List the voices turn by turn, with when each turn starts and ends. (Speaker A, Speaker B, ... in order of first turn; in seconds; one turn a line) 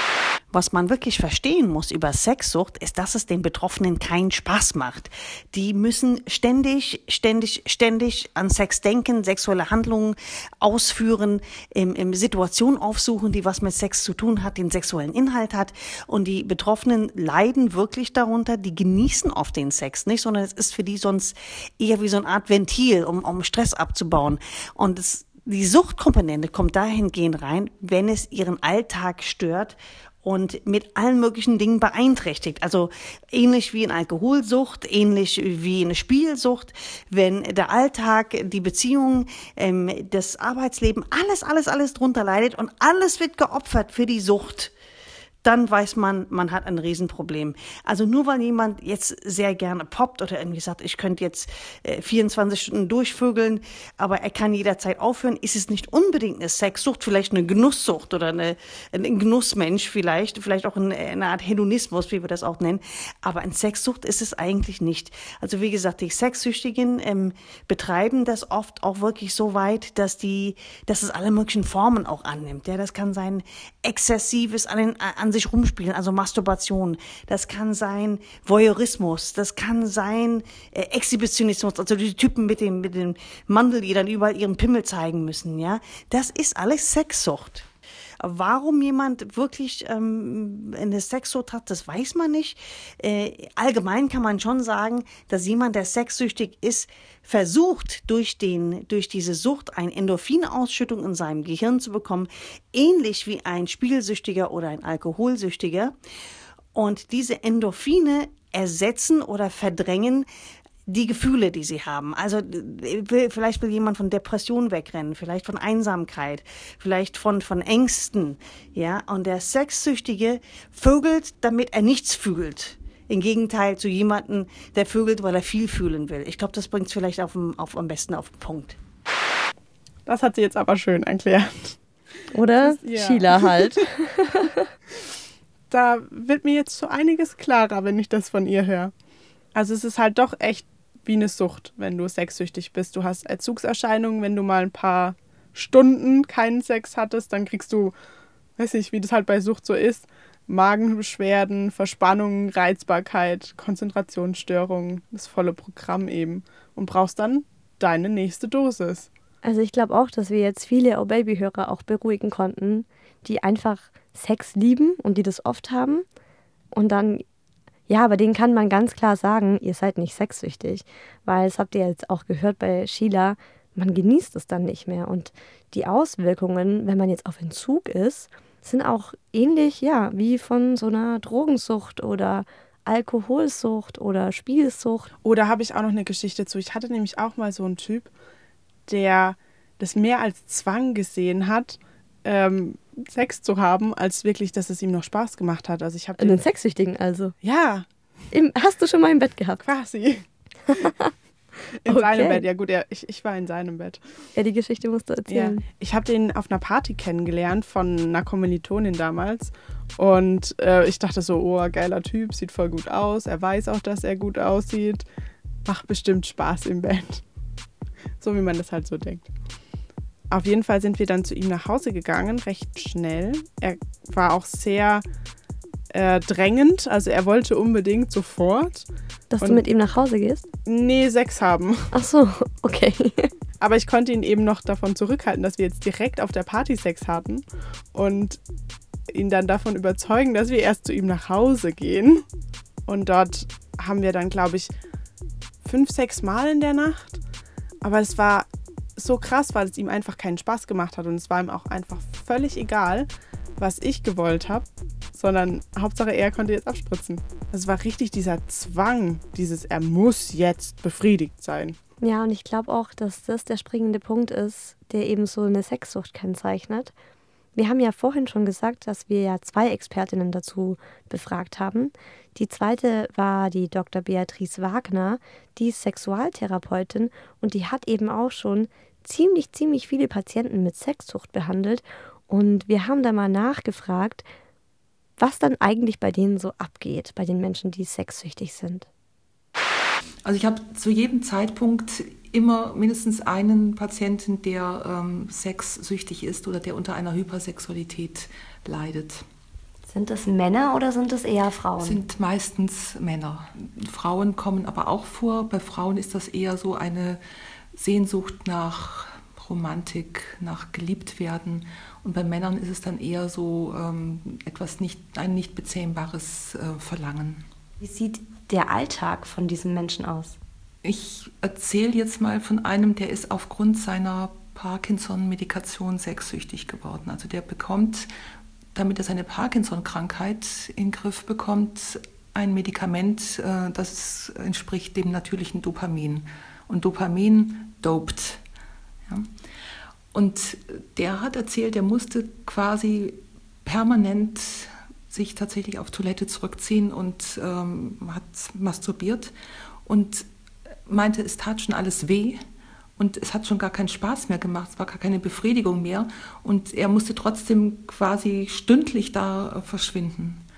Speaker A: 0.5-44.7
Speaker A: 45.4-87.7
Speaker A: 88.2-106.0
Speaker A: 106.7-110.3
Speaker A: 110.9-128.8
Speaker B: 130.1-131.8
Speaker C: 132.3-134.7
Speaker B: 132.6-133.8
Speaker B: 135.7-138.9
Speaker B: 139.5-147.9
Speaker B: 148.6-159.1
Speaker C: 159.4-166.1
Speaker C: 166.7-167.2
Speaker C: 167.9-185.1
Speaker B: 185.2-188.1
Speaker B: 188.9-196.4
Speaker C: 196.2-197.3
Speaker B: 197.4-197.9
Speaker C: 198.3-199.6
Speaker B: 199.6-200.2
Speaker C: 200.8-201.1
Speaker B: 201.8-204.0
Speaker C: 201.9-202.4
Speaker C: 204.3-205.6
Speaker B: 205.3-215.1
Speaker B: 215.7-217.2
Speaker B: 218.2-219.3
Speaker B: 220.3-225.0
Speaker B: 225.9-228.9
Speaker C: 229.3-230.5
Speaker B: 230.7-231.9
Speaker C: 231.9-233.3
Speaker B: 233.6-238.4
Speaker B: 239.1-242.2
Speaker B: 242.9-244.7
Speaker B: 245.6-247.2
Speaker B: 247.8-261.8
Speaker C: 262.0-266.9
Speaker C: 267.6-284.2
Speaker C: 285.2-288.9
Speaker D: 290.2-299.2
Speaker C: 299.9-302.0
Speaker D: 301.8-307.2
Speaker D: 307.7-317.4
Speaker C: 317.8-320.4
Speaker D: 320.8-328.1
Speaker D: 328.8-338.4
Speaker D: 340.1-349.3
Speaker D: 349.9-350.3
Speaker D: 350.9-352.4
Speaker D: 353.0-360.4